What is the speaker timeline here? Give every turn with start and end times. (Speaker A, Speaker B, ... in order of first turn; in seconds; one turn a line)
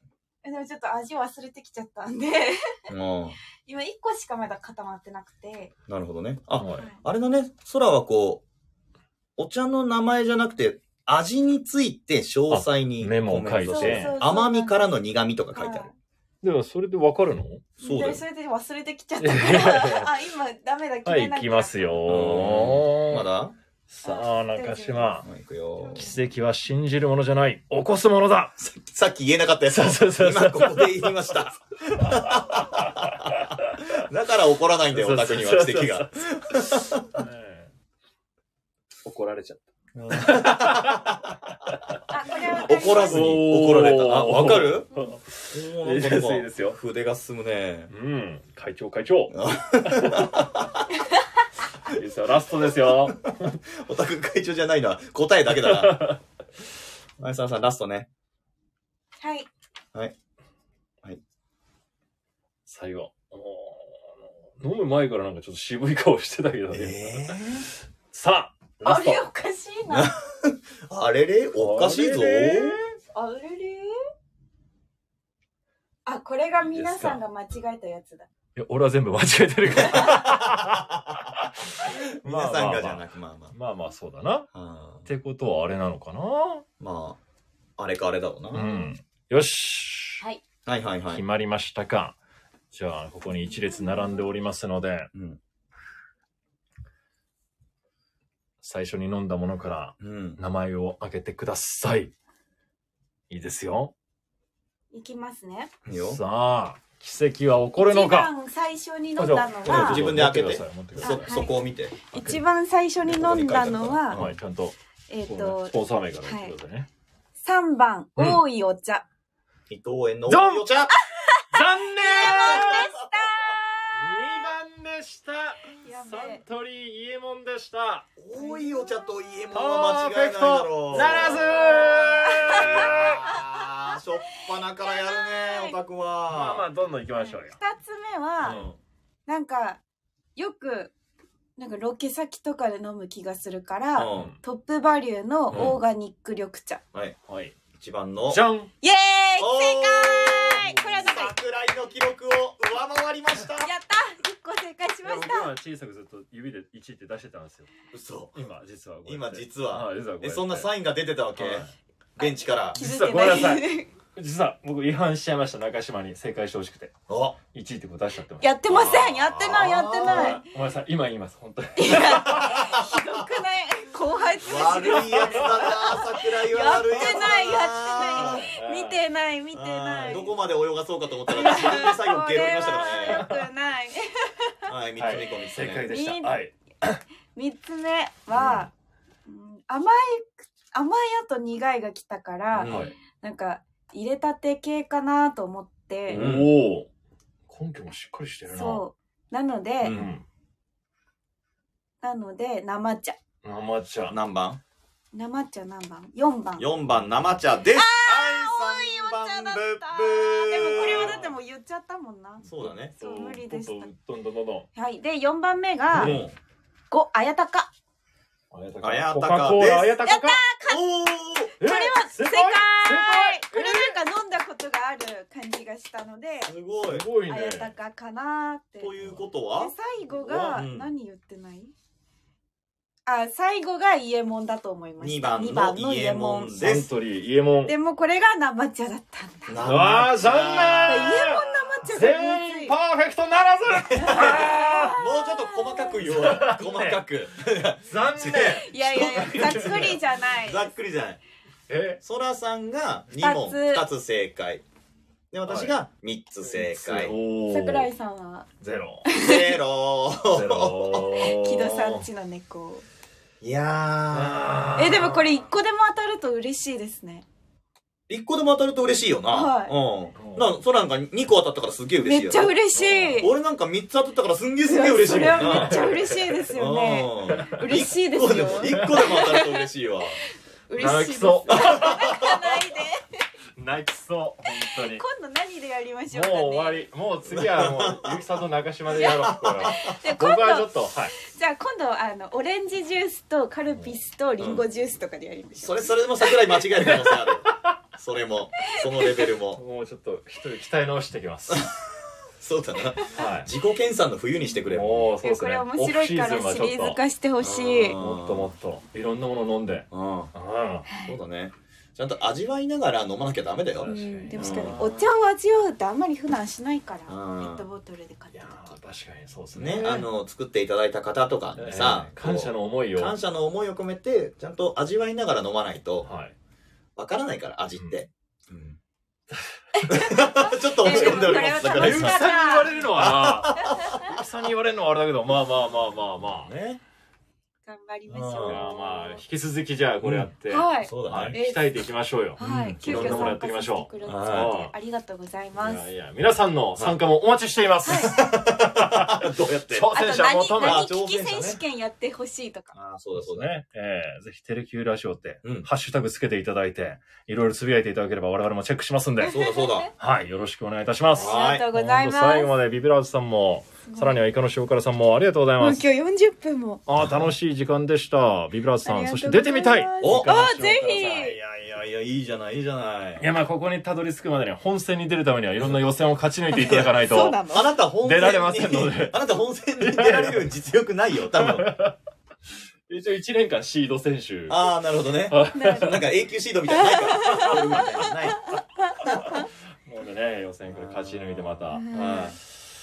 Speaker A: 0.4-2.8
Speaker B: 2.9-3.4
Speaker A: 3.6-5.7
Speaker B: 5.9-8.4
Speaker C: 6.6-6.9
Speaker A: 6.7-7.0
Speaker B: 9.4-15.9
Speaker C: 12.5-14.2
Speaker A: 13.7-14.8
Speaker A: 15.5-15.9
Speaker C: 16.4-17.7
Speaker B: 17.8-18.2
Speaker A: 17.8-22.0
Speaker C: 19.2-20.1
Speaker C: 21.1-23.3
Speaker B: 22.1-23.6
Speaker C: 23.9-25.3
Speaker A: 24.0-26.3
Speaker B: 25.2-26.1
Speaker C: 25.9-28.6
Speaker B: 28.6-37.3
Speaker C: 29.7-31.5
Speaker C: 32.0-33.9
Speaker C: 34.9-36.2
Speaker C: 37.1-37.7
Speaker C: 39.0-42.0
Speaker B: 40.0-41.8
Speaker A: 42.1-43.4
Speaker B: 42.5-44.9
Speaker C: 43.0-46.8
Speaker B: 45.5-47.9
Speaker C: 47.9-50.4
Speaker B: 49.3-50.9
Speaker C: 51.8-53.6
Speaker B: 52.9-56.1
Speaker C: 55.6-56.2
Speaker B: 57.2-58.1
Speaker A: 59.2-59.5
Speaker C: 62.7-67.4
Speaker B: 66.7-67.7
Speaker C: 68.1-69.2
Speaker A: 68.8-70.1
Speaker B: 69.9-72.8
Speaker C: 71.6-72.9
Speaker A: 73.1-74.0
Speaker A: 76.1-78.3
Speaker C: 76.6-77.2
Speaker C: 78.6-84.5
Speaker A: 79.8-80.4
Speaker B: 80.6-83.5
Speaker B: 84.5-85.1
Speaker C: 85.1-86.7
Speaker B: 86.8-87.2
Speaker B: 87.8-88.7
Speaker C: 88.5-90.2
Speaker A: 88.6-88.9
Speaker B: 90.7-91.2
Speaker C: 91.1-92.2
Speaker C: 92.7-95.1
Speaker A: 93.3-94.4
Speaker B: 95.1-95.4
Speaker C: 98.6-102.1
Speaker B: 100.0-100.4
Speaker C: 103.3-103.9
Speaker A: 104.9-105.7
Speaker B: 105.8-106.2
Speaker C: 105.9-108.3
Speaker A: 107.8-110.0
Speaker C: 109.2-111.4
Speaker B: 109.7-112.0
Speaker A: 111.0-114.2
Speaker C: 112.1-112.4
Speaker B: 113.0-114.4
Speaker C: 114.1-114.8
Speaker A: 115.1-116.5
Speaker C: 115.3-116.9
Speaker A: 117.4-119.0
Speaker C: 118.2-118.4
Speaker B: 119.7-120.9
Speaker C: 120.3-120.9
Speaker A: 121.1-124.5
Speaker C: 121.5-122.9
Speaker B: 122.2-123.2
Speaker C: 123.9-128.1
Speaker A: 125.7-126.4
Speaker B: 128.2-136.7
Speaker A: 128.3-129.2
Speaker C: 129.5-133.3
Speaker A: 130.9-133.7
Speaker A: 134.8-135.8
Speaker C: 136.3-137.6
Speaker A: 137.2-138.6
Speaker C: 138.4-138.7
Speaker B: 138.4-138.8
Speaker A: 139.3-139.8
Speaker A: 140.4-140.9
Speaker A: 141.6-146.8
Speaker B: 144.0-144.3
Speaker C: 144.1-144.4
Speaker C: 145.5-145.8
Speaker B: 145.5-145.8
Speaker C: 147.3-147.6
Speaker B: 147.8-148.4
Speaker C: 148.3-148.7
Speaker A: 148.8-151.3
Speaker B: 149.4-153.7
Speaker A: 153.6-155.5
Speaker C: 155.0-157.7
Speaker B: 157.9-158.4
Speaker C: 158.3-160.7
Speaker B: 159.1-162.8
Speaker C: 161.3-161.7
Speaker A: 162.2-163.9
Speaker C: 162.8-166.9
Speaker B: 167.1-167.4
Speaker C: 167.5-172.8
Speaker A: 168.4-170.4
Speaker B: 169.4-170.4
Speaker A: 171.8-180.3
Speaker B: 172.3-173.2
Speaker B: 174.4-178.5
Speaker C: 174.7-175.5
Speaker C: 176.9-179.0
Speaker B: 179.5-183.3
Speaker A: 181.3-184.7
Speaker C: 183.1-183.4
Speaker B: 184.7-185.9
Speaker C: 185.0-187.0
Speaker A: 185.8-186.4
Speaker A: 187.3-188.7
Speaker B: 188.3-188.7
Speaker C: 188.4-188.7
Speaker A: 189.3-196.3
Speaker B: 192.6-192.9
Speaker C: 192.6-192.9
Speaker C: 196.1-196.9
Speaker B: 196.1-196.5
Speaker C: 197.5-198.8
Speaker A: 198.5-200.0
Speaker B: 199.8-200.1
Speaker C: 199.9-200.2
Speaker A: 202.0-203.2
Speaker C: 203.4-204.2
Speaker B: 204.1-204.6
Speaker A: 205.1-206.7
Speaker B: 206.6-211.2
Speaker C: 207.0-207.4
Speaker A: 207.7-213.9
Speaker C: 210.7-211.3
Speaker B: 212.4-212.9
Speaker C: 212.6-214.7
Speaker A: 214.8-216.2
Speaker B: 215.9-216.3
Speaker C: 215.9-216.3
Speaker A: 216.9-217.7
Speaker C: 218.5-220.4
Speaker B: 218.8-220.0
Speaker A: 220.1-220.9
Speaker B: 220.7-221.5
Speaker A: 221.5-226.5
Speaker C: 221.6-224.0
Speaker B: 226.5-227.1
Speaker C: 226.9-227.7
Speaker A: 227.3-229.0
Speaker B: 228.8-230.9
Speaker A: 229.6-231.7
Speaker A: 233.1-236.6
Speaker B: 235.0-236.9
Speaker C: 236.6-237.7
Speaker A: 237.7-239.6
Speaker B: 239.5-241.2
Speaker C: 239.6-245.0
Speaker A: 240.8-242.8
Speaker B: 243.7-251.2
Speaker A: 244.0-246.1
Speaker C: 246.0-247.0
Speaker C: 247.9-250.0
Speaker A: 248.3-250.7
Speaker C: 251.7-252.0
Speaker B: 252.0-254.6
Speaker A: 253.2-253.8
Speaker B: 255.3-257.1
Speaker C: 255.5-255.7
Speaker C: 256.4-257.9
Speaker A: 257.5-258.5
Speaker C: 258.6-259.1
Speaker A: 259.1-259.6
Speaker B: 259.1-261.6
Speaker C: 260.3-262.1
Speaker A: 261.0-262.9
Speaker B: 263.4-264.7
Speaker C: 264.1-265.3
Speaker A: 264.8-267.2
Speaker B: 268.1-272.5
Speaker A: 269.3-269.8
Speaker C: 270.2-270.5
Speaker A: 272.0-273.3
Speaker C: 272.8-273.2
Speaker B: 273.1-280.2
Speaker A: 274.6-279.7
Speaker C: 275.1-276.4
Speaker C: 277.3-277.8
Speaker C: 278.7-279.1
Speaker A: 280.7-283.2
Speaker C: 280.8-282.5
Speaker B: 281.5-282.3
Speaker C: 283.6-285.1
Speaker A: 284.6-286.9
Speaker C: 286.1-291.1
Speaker B: 287.3-288.2
Speaker A: 288.9-296.4
Speaker B: 288.9-289.9
Speaker C: 293.7-294.0
Speaker B: 294.4-294.6
Speaker B: 295.6-299.6
Speaker C: 296.9-297.8
Speaker A: 298.7-299.3
Speaker C: 299.6-301.7
Speaker B: 301.5-305.1
Speaker C: 303.1-303.5
Speaker C: 304.7-307.0
Speaker A: 305.2-308.0
Speaker B: 307.4-308.6
Speaker C: 307.9-310.9
Speaker B: 309.9-310.3
Speaker A: 310.9-311.2
Speaker B: 311.0-314.8
Speaker C: 313.8-315.1
Speaker A: 313.9-318.8
Speaker B: 317.1-317.7
Speaker C: 318.3-319.9
Speaker B: 319.6-326.1
Speaker A: 319.8-320.1
Speaker C: 321.6-323.2
Speaker C: 326.0-326.4
Speaker B: 327.0-328.8
Speaker C: 327.8-328.0
Speaker A: 329.8-332.8
Speaker B: 329.9-332.3
Speaker C: 330.9-336.5
Speaker B: 332.9-334.2
Speaker B: 336.3-336.8
Speaker A: 337.7-339.2
Speaker B: 338.1-338.7
Speaker C: 338.4-344.7
Speaker B: 340.0-341.4
Speaker A: 340.5-341.8
Speaker A: 342.4-345.9
Speaker B: 342.4-343.4
Speaker B: 344.1-344.5
Speaker C: 345.6-350.9
Speaker A: 347.9-348.3
Speaker B: 348.1-350.0
Speaker A: 349.9-352.7
Speaker B: 350.6-351.6
Speaker B: 352.7-353.5
Speaker C: 353.2-359.4
Speaker B: 355.4-355.7
Speaker A: 359.2-359.9
Speaker B: 359.3-359.9
Speaker C: 360.0-365.8
Speaker A: 361.1-362.5
Speaker B: 361.1-361.7
Speaker A: 363.9-364.3
Speaker A: 365.6-366.8
Speaker C: 366.9-371.2
Speaker B: 367.0-367.3
Speaker A: 368.9-371.4
Speaker B: 370.0-370.3
Speaker B: 371.0-373.3
Speaker C: 373.2-377.4
Speaker B: 376.6-376.9
Speaker A: 376.6-377.7
Speaker B: 377.5-381.7
Speaker C: 378.0-379.2
Speaker C: 379.8-380.5
Speaker C: 381.3-382.0
Speaker C: 382.9-384.6
Speaker B: 384.5-388.4
Speaker C: 385.3-386.0
Speaker A: 385.5-386.1
Speaker A: 386.7-389.5
Speaker C: 387.2-387.6
Speaker C: 389.1-392.2
Speaker B: 390.7-392.4
Speaker A: 391.7-392.4